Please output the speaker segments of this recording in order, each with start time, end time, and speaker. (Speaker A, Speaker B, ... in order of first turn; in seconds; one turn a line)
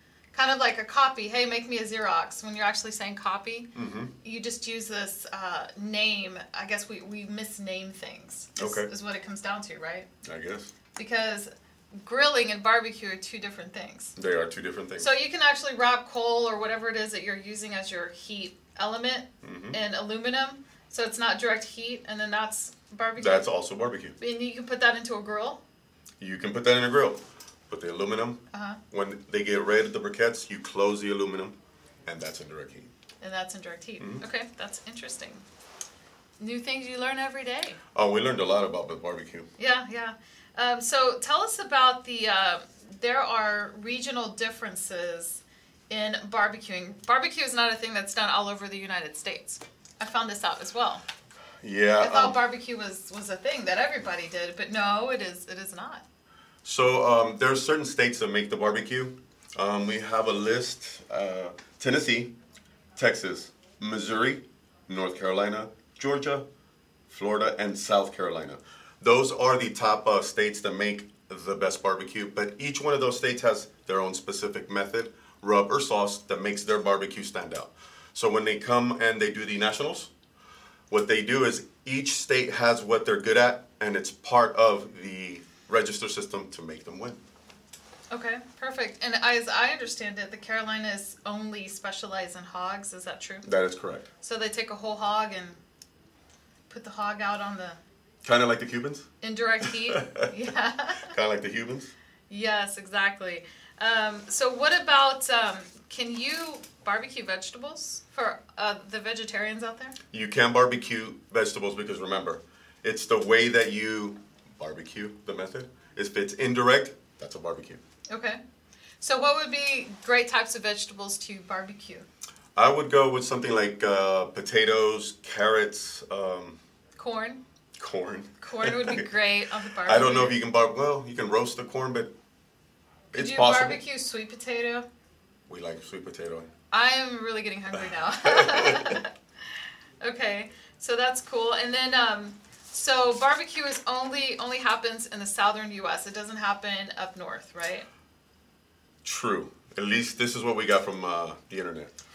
Speaker A: 0.3-3.7
Speaker B: 3.7-4.1
Speaker A: 4.2-10.1
Speaker B: 8.6-8.9
Speaker B: 10.2-10.7
Speaker A: 10.9-14.1
Speaker B: 14.2-15.1
Speaker A: 15.0-23.5
Speaker B: 19.4-19.8
Speaker B: 23.2-24.1
Speaker A: 24.2-25.6
Speaker B: 26.2-32.9
Speaker A: 28.5-28.8
Speaker A: 33.2-35.4
Speaker B: 34.0-34.2
Speaker A: 36.4-37.8
Speaker B: 37.9-39.5
Speaker A: 39.6-51.0
Speaker B: 51.6-52.4
Speaker A: 52.0-56.0
Speaker B: 56.6-62.3
Speaker B: 62.9-66.4
Speaker B: 67.1-80.1
Speaker B: 80.9-87.2
Speaker A: 88.1-93.5
Speaker B: 93.4-94.1
Speaker A: 94.2-95.6
Speaker A: 96.7-97.8
Speaker B: 98.2-99.1
Speaker A: 99.2-101.1
Speaker B: 99.6-100.3
Speaker B: 101.1-101.9
Speaker A: 102.3-110.0
Speaker B: 110.1-117.8
Speaker A: 118.1-118.4
Speaker A: 119.0-122.0
Speaker B: 122.5-126.6
Speaker A: 127.0-127.4
Speaker B: 127.8-129.1
Speaker A: 128.4-130.4
Speaker B: 129.8-132.1
Speaker B: 133.1-133.8
Speaker A: 133.1-134.8
Speaker B: 135.5-136.5
Speaker A: 136.7-139.1
Speaker B: 137.7-139.0
Speaker A: 140.0-147.8
Speaker B: 149.0-151.9